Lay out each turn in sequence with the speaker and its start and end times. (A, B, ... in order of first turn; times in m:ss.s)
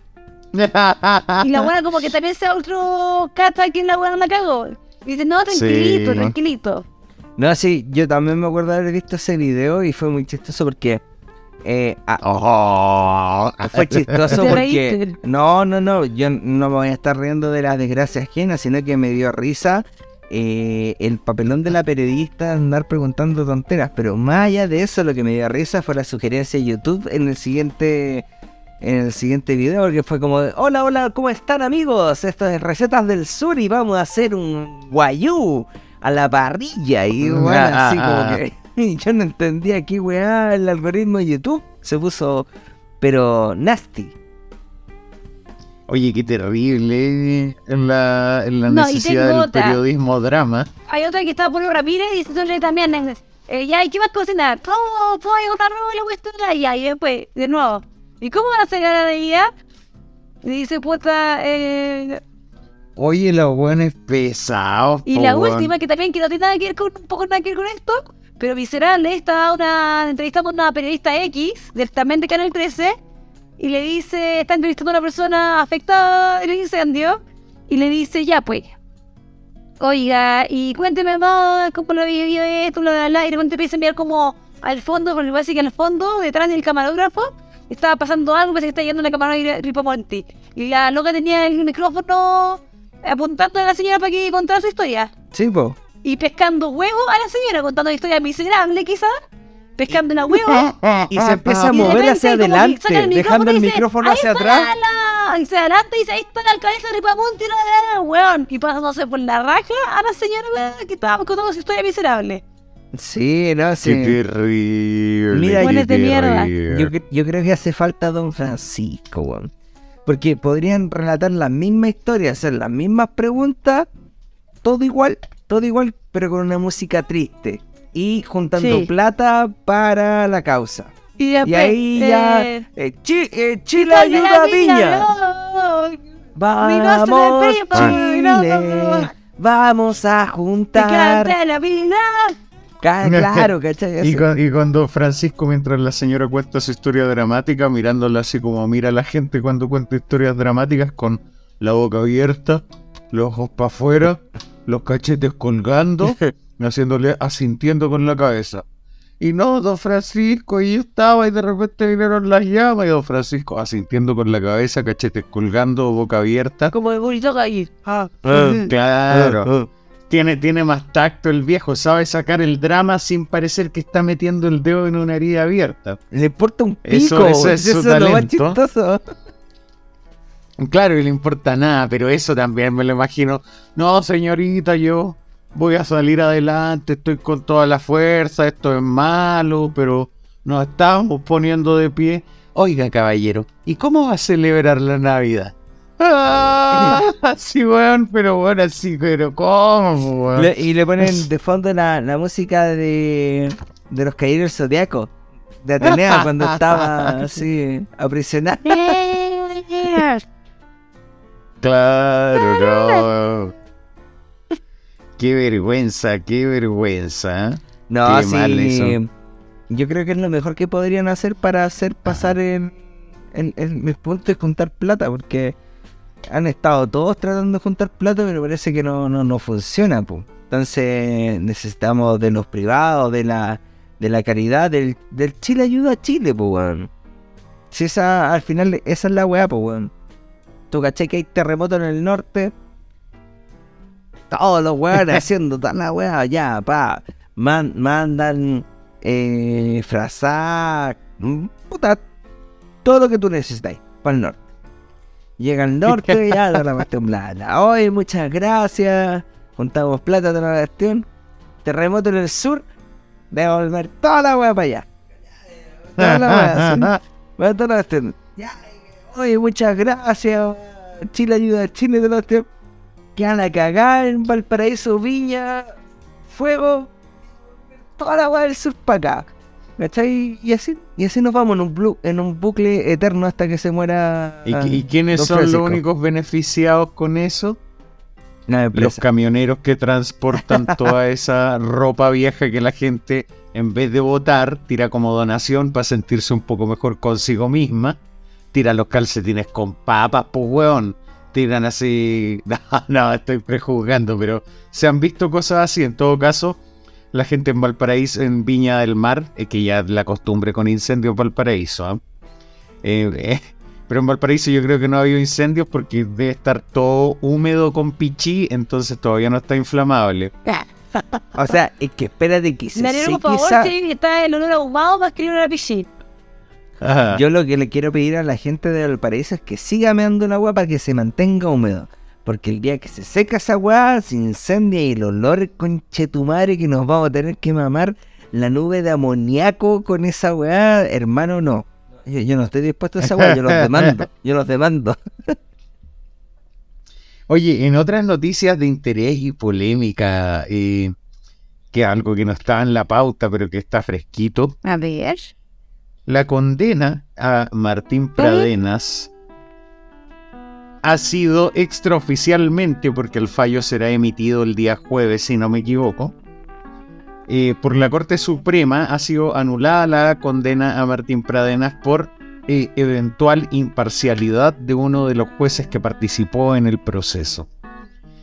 0:00.5-0:01.7 A
0:01.4-0:06.8 B
0:05.5-0:06.3 A
0:07.4-0:11.0 C
0:11.6-0:12.2 C
0:12.2-0:14.5 A
0:13.6-0:28.2 C
0:14.3-0:15.2 B
0:28.8-0:42.5 C
0:37.2-0:38.4 A
0:43.0-0:44.1 C
0:45.9-0:50.7 A
0:48.6-0:49.8 B
0:50.9-0:59.5 B
1:00.4-1:02.2 B
1:03.0-1:05.7 A
1:05.1-1:13.0 B
1:13.6-1:18.7 B
1:19.8-1:35.1 B
1:35.3-1:35.8 C
1:36.0-1:39.1 B
1:39.8-1:40.7 B
1:40.7-1:42.0 A
1:41.1-1:44.7 C
1:41.7-1:52.4 B
1:52.9-1:54.2 C
1:53.8-1:56.9 A
1:55.3-1:55.8 C
1:55.6-1:56.5 B
1:56.7-1:59.5 C
2:00.0-2:03.9 C
2:04.6-2:15.1 C
2:08.6-2:08.9 B
2:11.2-2:12.6 B
2:13.8-2:16.0 B
2:16.4-2:21.3 C
2:16.6-2:19.1 B
2:20.7-2:22.4 B
2:22.8-2:24.2 C
2:23.0-2:38.6 A
2:39.2-2:46.7 A
2:46.7-2:48.6 B
2:48.2-2:49.7 C
2:48.4-2:49.5 A
2:50.1-2:56.0 A
2:56.1-2:59.0 C
2:56.8-2:58.6 A
3:00.6-3:20.5 A
3:16.7-3:17.0 C
3:20.4-3:25.1 C
3:25.6-3:29.0 C
3:25.8-3:27.2 A
3:28.7-3:30.2 B
3:31.6-3:33.5 A
3:32.4-3:33.0 B
3:35.2-3:39.0 A
3:37.9-3:39.1 C
3:39.7-3:42.8 C
3:43.3-3:45.6 C
3:46.2-3:56.9 C
3:57.7-3:59.9 C
4:00.7-4:02.5 C
4:04.3-4:12.0 C
4:12.8-4:14.4 C
4:15.4-4:21.0 C
4:15.9-4:16.4 A
4:21.6-4:22.6 C
4:23.3-4:24.9 C
4:25.8-4:32.5 C
4:26.0-4:27.0 A
4:33.2-4:35.7 C
4:36.3-4:36.9 C
4:37.9-4:45.8 C
4:44.4-4:47.6 A
4:48.5-4:49.0 C
4:48.7-4:58.0 A
4:50.4-4:50.9 C
4:58.5-5:06.6 A
5:07.1-5:12.0 A
5:12.8-5:20.3 A
5:21.3-5:23.7 C
5:22.7-5:25.9 B
5:26.8-5:27.2 A
5:27.1-5:45.4 C
5:43.0-5:44.0 A
5:47.3-5:50.9 A
5:51.7-5:54.6 A
5:54.6-5:55.3 B
5:56.0-5:59.1 A
5:58.2-5:58.5 B
6:00.8-6:06.1 A
6:07.3-6:17.5 A